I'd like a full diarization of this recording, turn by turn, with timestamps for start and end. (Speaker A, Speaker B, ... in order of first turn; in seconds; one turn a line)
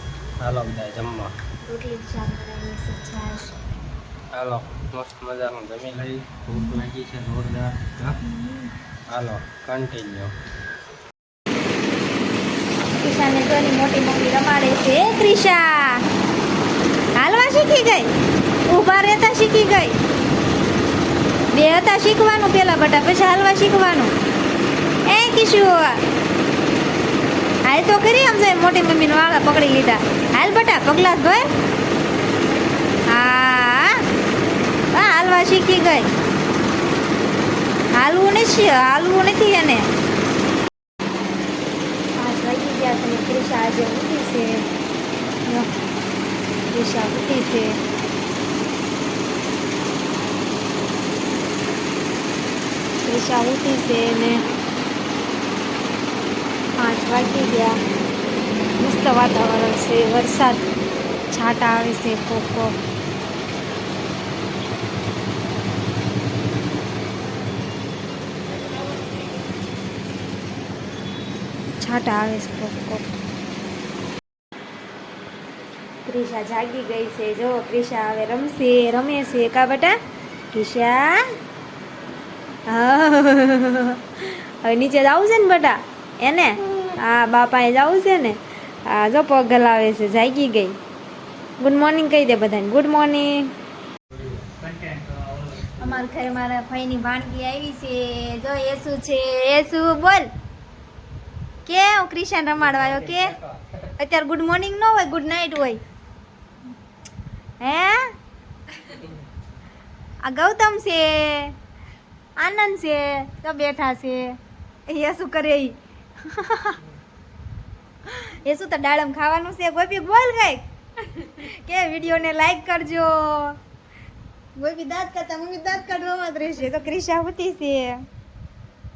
Speaker A: 0.4-1.3
Speaker B: 1.6-3.5
Speaker A: 4.3-8.2
Speaker B: 6.5-6.8
Speaker B: 8.2-8.7
Speaker A: 9.1-10.3
Speaker B: 13.0-16.0
Speaker B: 17.2-18.1
Speaker B: 18.7-19.9
Speaker B: 21.5-24.1
Speaker B: 25.1-26.0
Speaker B: 27.6-31.5
Speaker B: 33.1-33.9
Speaker B: 34.9-36.1
Speaker B: 38.0-39.9
Speaker B: 42.2-44.6
Speaker B: 46.7-47.8
Speaker B: 53.0-54.4
Speaker B: 56.8-57.8
Speaker B: 58.8-60.6
Speaker B: 61.3-62.7
Speaker B: 71.8-73.0
Speaker B: 76.0-79.9
Speaker B: 80.5-81.2
Speaker B: 82.7-90.8
Speaker B: 91.6-93.5
Speaker A: 94.1-96.0
Speaker B: 95.8-100.3
Speaker B: 101.6-103.3
Speaker A: 102.6-103.8
Speaker B: 104.0-105.8
Speaker B: 107.6-108.0
Speaker B: 110.2-111.5
Speaker B: 112.4-114.3
Speaker B: 114.9-116.8
Speaker B: 118.0-123.5
Speaker B: 124.6-128.1